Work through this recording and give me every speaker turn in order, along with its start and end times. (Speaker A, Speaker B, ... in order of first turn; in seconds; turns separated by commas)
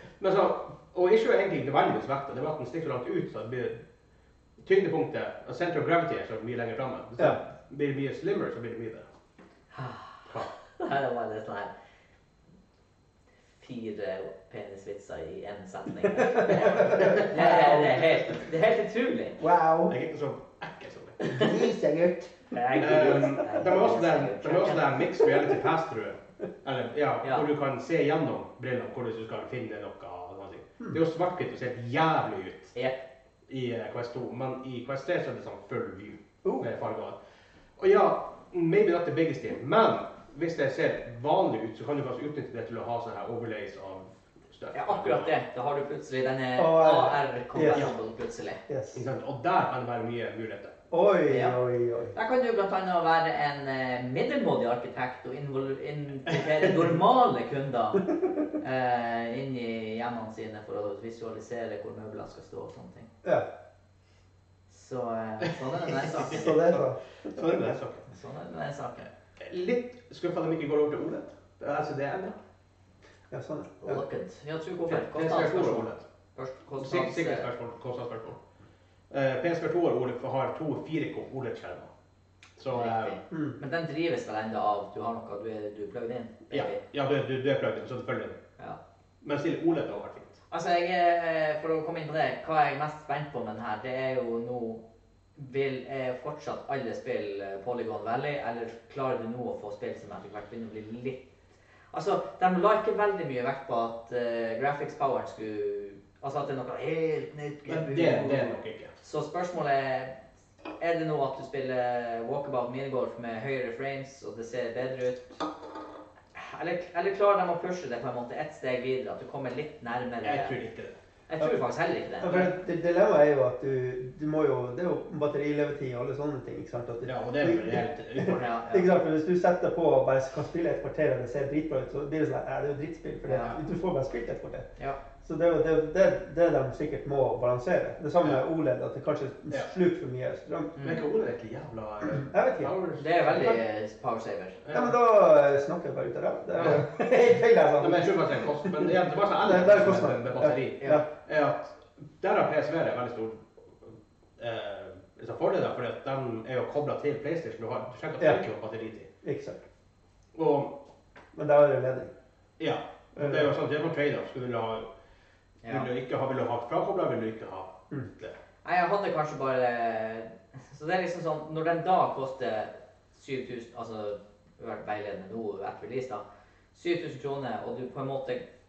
Speaker A: 0.2-3.8, Speaker A: 4.6-9.1, Speaker B: 9.7-11.7, Speaker A: 10.2-10.5, Speaker B: 13.6-19.4, Speaker C: 16.1-18.2, Speaker A: 16.5-17.3, Speaker C: 19.4-19.9, Speaker A: 19.9-21.2, Speaker B: 21.2-21.5, Speaker C: 21.3-23.2, Speaker B: 22.5-24.9, Speaker A: 22.8-32.7, Speaker B: 32.7-33.0, Speaker A: 33.5-37.2, Speaker A: 37.8-45.3, Speaker B: 44.7-48.6, Speaker C: 46.6-47.8, Speaker C: 48.7-49.0, Speaker A: 48.9-50.7, Speaker C: 50.9-52.1, Speaker B: 51.3-51.6, Speaker B: 52.1-58.1, Speaker B: 58.6-63.1, Speaker B: 64.7-66.6, Speaker A: 66.0-68.0, Speaker C: 66.1-67.0, Speaker B: 68.1-69.1, Speaker A: 69.4-72.3, Speaker C: 73.3-74.0, Speaker B: 73.8-77.5, Speaker A: 74.9-76.0, Speaker A: 76.8-78.4, Speaker A: 79.1-81.9, Speaker A: 82.6-83.2, Speaker B: 82.7-86.8, Speaker C: 83.3-83.6, Speaker A: 86.5-88.4, Speaker A: 89.2-90.4, Speaker B: 90.5-94.8, Speaker B: 95.3-101.2, Speaker B: 101.9-108.5, Speaker A: 107.7-108.9, Speaker B: 109.0-110.1, Speaker B: 110.8-115.3, Speaker B: 116.3-120.5, Speaker A: 120.2-121.0, Speaker B: 121.3-122.5, Speaker C: 122.2-134.7, Speaker A: 127.0-128.4, Speaker B: 128.2-128.9, Speaker B: 133.3-133.6, Speaker C: 135.2-140.7, Speaker B: 140.8-141.0, Speaker A: 140.8-143.6, Speaker C: 142.2-142.7, Speaker B: 143.0-144.6, Speaker A: 144.6-144.9, Speaker C: 144.7-148.9, Speaker A: 147.8-159.1, Speaker C: 149.4-151.0, Speaker C: 159.2-159.6, Speaker A: 160.3-160.7, Speaker C: 161.3-162.1, Speaker A: 162.6-164.9, Speaker C: 163.2-163.5, Speaker B: 165.6-165.9, Speaker A: 165.7-168.3, Speaker B: 168.6-176.2, Speaker B: 176.7-178.4